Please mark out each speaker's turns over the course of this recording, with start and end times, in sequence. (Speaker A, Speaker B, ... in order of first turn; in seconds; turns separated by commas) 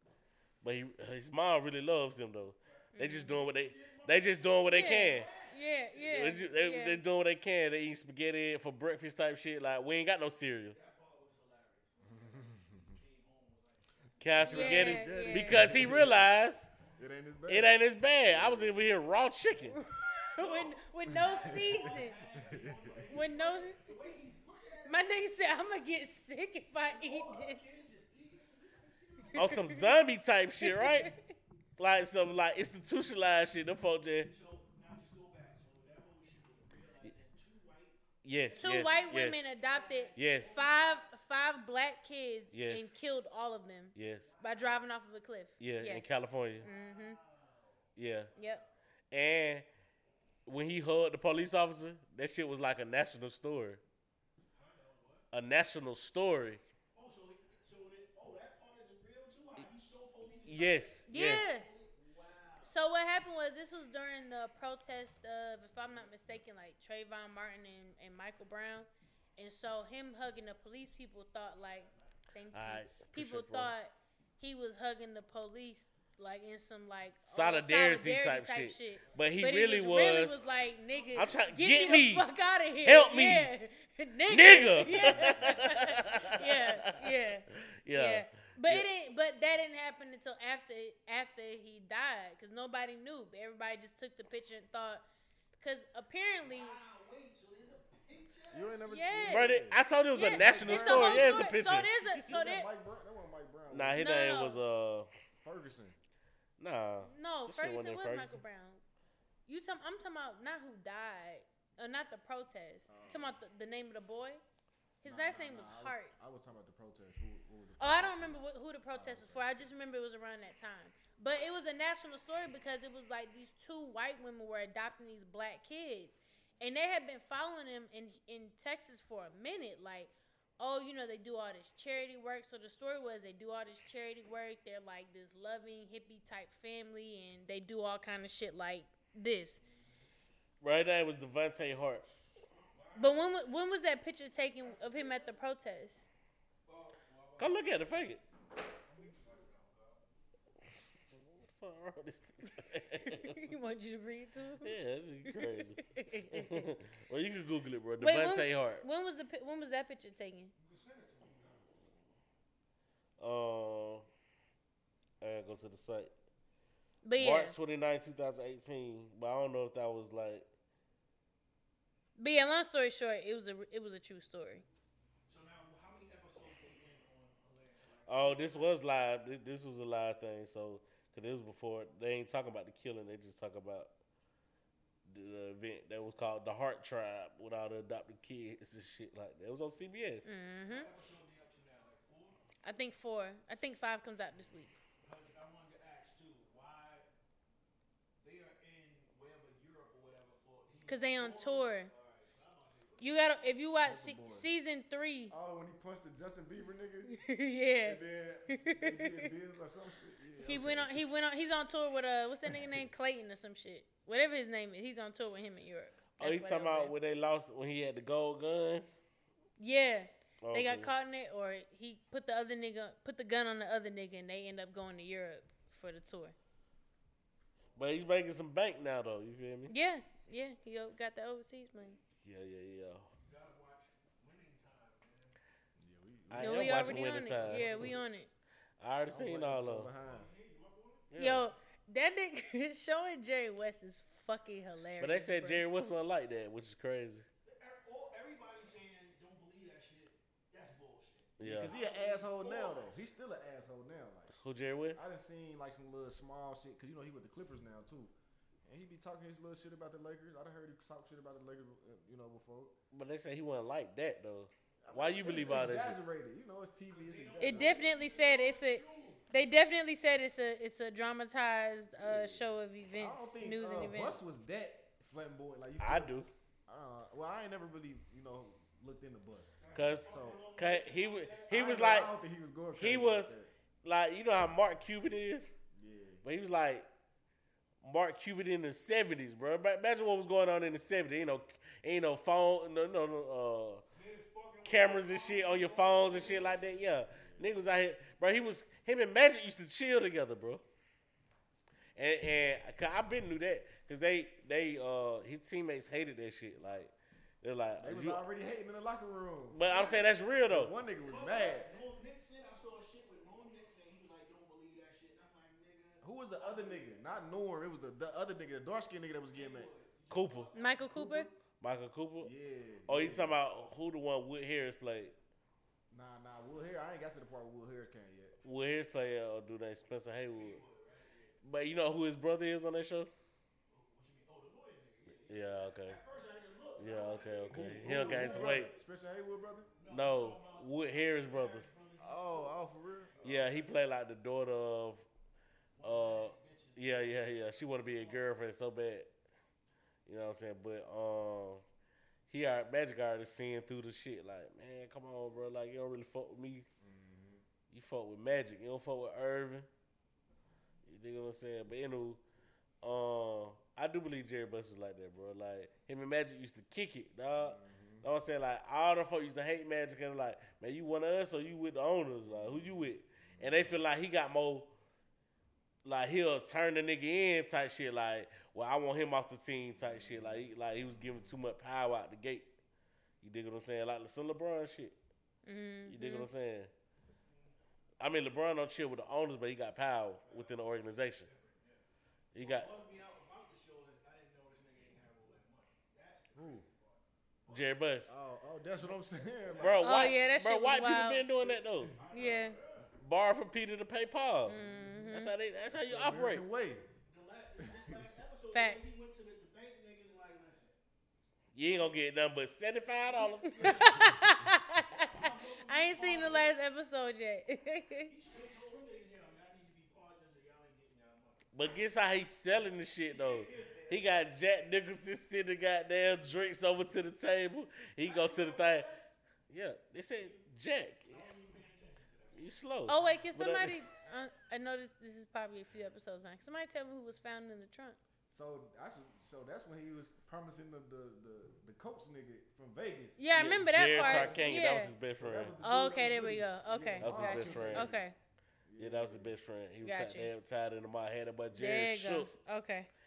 Speaker A: 0.6-5.3, Speaker B: 2.6-6.3, Speaker C: 2.9-3.4, Speaker C: 4.7-7.0, Speaker A: 6.0-10.8, Speaker B: 10.7-14.9, Speaker D: 12.0-13.0, Speaker A: 14.2-16.7, Speaker D: 14.4-16.2, Speaker C: 14.4-15.7, Speaker D: 17.0-18.8, Speaker A: 17.5-19.8, Speaker C: 19.7-22.2, Speaker B: 20.4-25.2, Speaker D: 21.1-21.8, Speaker D: 22.3-23.1, Speaker C: 23.1-23.8, Speaker C: 24.9-27.7, Speaker B: 26.8-29.8, Speaker C: 29.3-29.9, Speaker A: 29.3-31.1, Speaker C: 30.6-31.3, Speaker A: 31.8-34.3, Speaker B: 34.2-41.1, Speaker A: 38.2-39.5, Speaker C: 38.6-47.2, Speaker A: 40.1-40.6, Speaker A: 42.5-43.0, Speaker A: 43.9-44.3, Speaker B: 44.2-44.8, Speaker A: 45.6-46.7, Speaker B: 46.6-48.7, Speaker A: 48.0-48.3, Speaker C: 48.4-48.6, Speaker A: 49.1-49.7, Speaker A: 50.5-53.8, Speaker B: 54.5-55.2, Speaker A: 55.3-56.6, Speaker B: 56.9-62.7, Speaker A: 60.5-61.6, Speaker C: 61.1-61.7, Speaker C: 62.6-95.0, Speaker B: 71.6-72.2, Speaker A: 72.5-73.7, Speaker A: 77.2-80.4, Speaker B: 79.0-82.1, Speaker A: 81.1-82.3, Speaker A: 82.8-83.5, Speaker A: 84.3-88.9, Speaker C: 95.6-96.8, Speaker B: 96.4-99.0, Speaker D: 98.5-101.6, Speaker C: 98.9-99.6, Speaker A: 99.2-102.2, Speaker C: 100.1-102.7, Speaker D: 102.2-104.0, Speaker A: 103.7-105.1, Speaker C: 103.9-104.6, Speaker D: 105.3-106.0, Speaker A: 106.6-108.4, Speaker C: 107.0-108.8, Speaker C: 109.5-114.4, Speaker D: 112.9-113.4, Speaker C: 115.0-116.1, Speaker D: 115.0-119.5, Speaker C: 117.8-139.6, Speaker B: 139.6-140.0, Speaker A: 140.6-142.1, Speaker B: 142.6-143.4, Speaker C: 142.9-146.0, Speaker B: 144.6-145.4, Speaker B: 146.7-148.0, Speaker A: 147.4-148.2, Speaker B: 148.8-150.0, Speaker A: 151.1-153.5, Speaker C: 153.0-156.7, Speaker A: 154.6-158.8, Speaker C: 158.0-160.5, Speaker B: 160.6-161.7, Speaker A: 163.2-164.1, Speaker A: 165.2-166.1, Speaker C: 167.0-167.6, Speaker A: 167.2-170.4, Speaker C: 172.2-174.6, Speaker B: 175.3-178.8, Speaker A: 178.1-183.9, Speaker A: 185.1-190.3, Speaker C: 190.2-190.9, Speaker B: 190.7-192.4, Speaker C: 192.6-194.8, Speaker B: 195.0-197.1, Speaker B: 198.2-203.6, Speaker C: 200.9-201.9, Speaker C: 203.0-205.3, Speaker D: 203.8-204.5, Speaker D: 205.3-207.2, Speaker C: 207.1-209.3, Speaker D: 207.8-211.4, Speaker C: 210.4-216.9, Speaker A: 216.2-218.9, Speaker C: 219.6-226.3, Speaker A: 220.4-220.9, Speaker A: 227.8-229.7, Speaker C: 229.7-232.0, Speaker A: 232.2-233.1, Speaker B: 233.2-235.4, Speaker D: 235.8-237.9, Speaker A: 236.3-237.9, Speaker C: 236.4-238.3, Speaker A: 238.8-239.9, Speaker D: 239.1-240.3, Speaker B: 240.0-241.1, Speaker A: 241.1-241.5, Speaker C: 241.2-245.6, Speaker A: 245.0-247.3, Speaker B: 247.4-253.0, Speaker A: 251.4-251.7, Speaker D: 251.4-254.3, Speaker A: 254.4-255.0, Speaker D: 254.9-258.1, Speaker D: 258.6-262.7, Speaker A: 262.9-266.0, Speaker D: 264.8-267.8, Speaker B: 266.9-269.3, Speaker C: 267.4-274.2, Speaker D: 272.0-276.1, Speaker A: 275.8-276.3, Speaker D: 276.7-280.4, Speaker B: 279.6-282.0, Speaker A: 279.7-282.1, Speaker D: 281.5-283.5, Speaker A: 282.7-285.5, Speaker D: 285.7-286.2, Speaker A: 286.2-286.9, Speaker A: 287.8-293.8, Speaker B: 293.9-296.6, Speaker A: 294.6-300.6, Speaker D: 296.2-296.5, Speaker D: 297.1-297.5, Speaker A: 301.9-308.2, Speaker D: 307.8-309.6, Speaker A: 309.5-310.7, Speaker B: 309.6-310.2, Speaker D: 310.5-311.7, Speaker B: 311.0-317.0, Speaker D: 316.0-319.7, Speaker B: 319.3-320.9, Speaker A: 320.1-320.5, Speaker C: 320.5-321.3, Speaker A: 321.6-322.3, Speaker D: 322.2-323.4, Speaker A: 322.9-325.1, Speaker D: 325.9-328.4, Speaker A: 328.4-330.6, Speaker B: 330.3-331.4, Speaker A: 331.4-333.1, Speaker B: 333.7-338.7, Speaker A: 335.3-336.0, Speaker A: 336.8-338.7, Speaker D: 337.5-339.7, Speaker B: 339.7-343.7, Speaker A: 339.9-341.7, Speaker D: 342.0-343.4, Speaker A: 343.2-345.1, Speaker B: 345.8-348.3, Speaker A: 345.8-349.1, Speaker A: 350.1-351.6, Speaker A: 352.3-356.6, Speaker D: 356.8-357.4, Speaker A: 357.7-359.7, Speaker A: 360.9-362.2, Speaker A: 362.8-374.7, Speaker D: 367.4-368.1, Speaker D: 372.3-373.8, Speaker A: 375.8-382.5, Speaker D: 379.8-381.3, Speaker A: 383.2-384.9, Speaker C: 385.4-386.3, Speaker A: 385.9-386.7, Speaker B: 387.3-387.5, Speaker A: 388.0-391.3, Speaker B: 390.2-391.8, Speaker A: 392.3-392.7, Speaker B: 392.4-397.9, Speaker D: 396.3-396.6, Speaker A: 397.5-398.1, Speaker D: 398.1-399.9, Speaker B: 398.7-400.3, Speaker A: 399.5-402.0, Speaker C: 399.8-401.2, Speaker B: 401.4-402.9, Speaker C: 402.1-402.6, Speaker A: 403.0-406.4, Speaker C: 404.4-405.3, Speaker D: 405.7-406.9, Speaker B: 407.1-410.8, Speaker D: 407.6-408.0, Speaker C: 408.5-408.9, Speaker A: 411.5-414.0, Speaker B: 413.1-414.4, Speaker C: 413.6-418.1, Speaker B: 414.9-416.6, Speaker B: 418.1-421.5, Speaker A: 421.5-428.9, Speaker B: 423.1-424.2, Speaker B: 428.0-429.1, Speaker A: 429.5-431.4, Speaker B: 430.1-430.4, Speaker B: 431.1-432.5, Speaker A: 432.3-433.8, Speaker C: 432.9-438.0, Speaker D: 438.3-443.2, Speaker C: 443.2-444.9, Speaker A: 443.3-445.6, Speaker D: 443.8-444.6, Speaker D: 445.2-448.0, Speaker C: 445.6-448.1, Speaker A: 447.0-447.9, Speaker D: 448.6-449.3, Speaker A: 448.8-452.3, Speaker C: 449.8-450.3, Speaker C: 451.5-452.9